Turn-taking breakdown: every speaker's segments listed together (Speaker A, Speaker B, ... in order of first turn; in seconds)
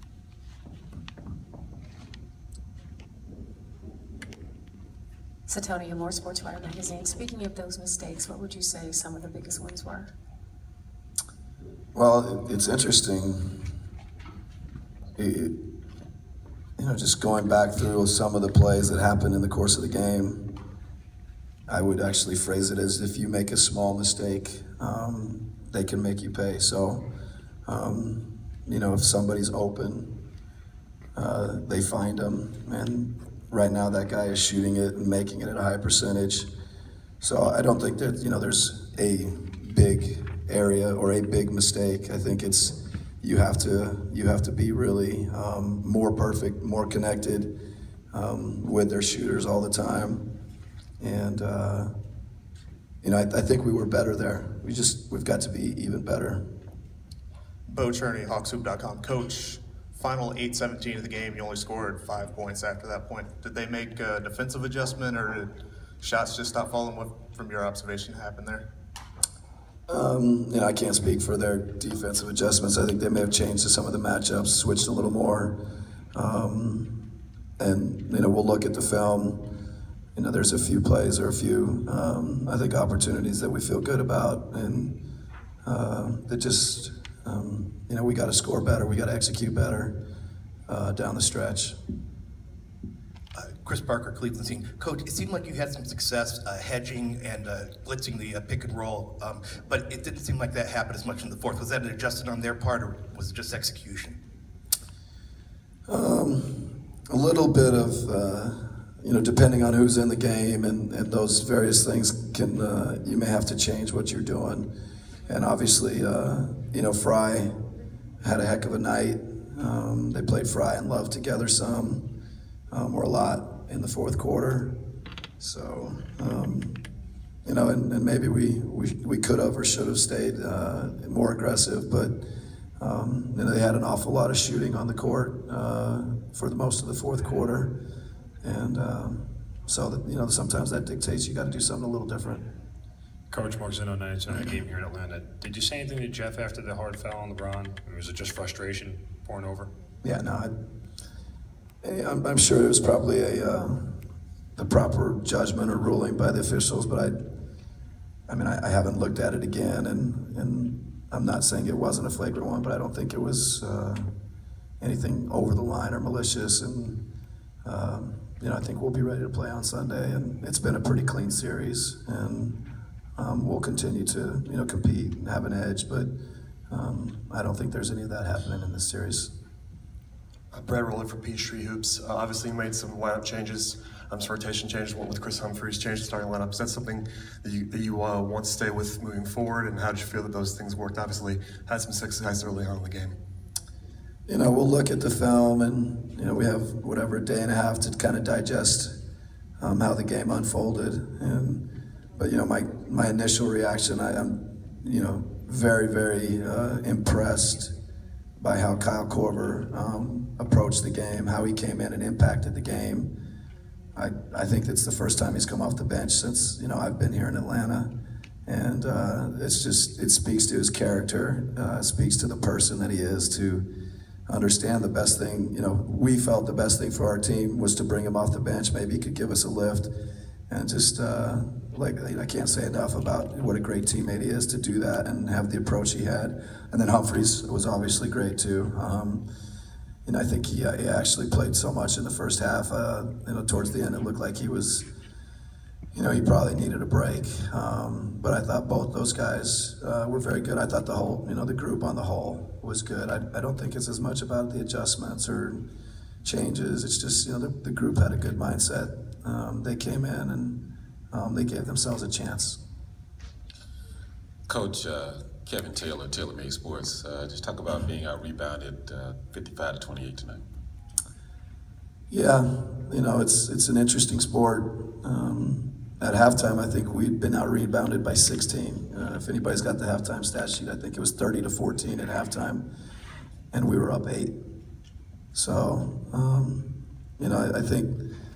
Speaker A: 5.5-10.1
Speaker B: 11.9-13.5, 15.2-15.5, 16.8-20.4, 21.7-27.0, 27.6-30.1, 31.1-36.5, 37.2-47.5, 48.1-50.2, 51.0-51.9, 53.0-56.4, 69.9-75.5, 76.1-76.9, 77.6-79.4, 80.2-84.9, 85.6-89.9, 90.7-91.8, 105.9-114.7, 115.3-117.5, 118.2-122.0, 122.7-124.7, 125.4-126.8, 127.4-132.2, 132.8-137.7, 138.4-142.4, 150.0-150.5, 151.8-153.9, 154.6-157.2, 158.3-164.1, 164.8-167.0, 167.6-172.6, 173.2-176.1, 176.7-179.3, 194.3-198.9, 199.6-201.6, 202.2-207.7, 208.4-213.1, 213.9-217.9, 218.4-223.6, 224.3-229.9, 230.5-239.2, 240.0-244.8, 245.9-255.6, 256.2-260.6, 261.1-262.6, 272.1-282.6, 283.5-284.3, 285.3-287.9
Speaker C: 57.7-65.5, 66.0-68.6
Speaker D: 93.3-104.2
Speaker E: 143.3-149.7
Speaker F: 180.5-193.2
Speaker G: 264.5-270.4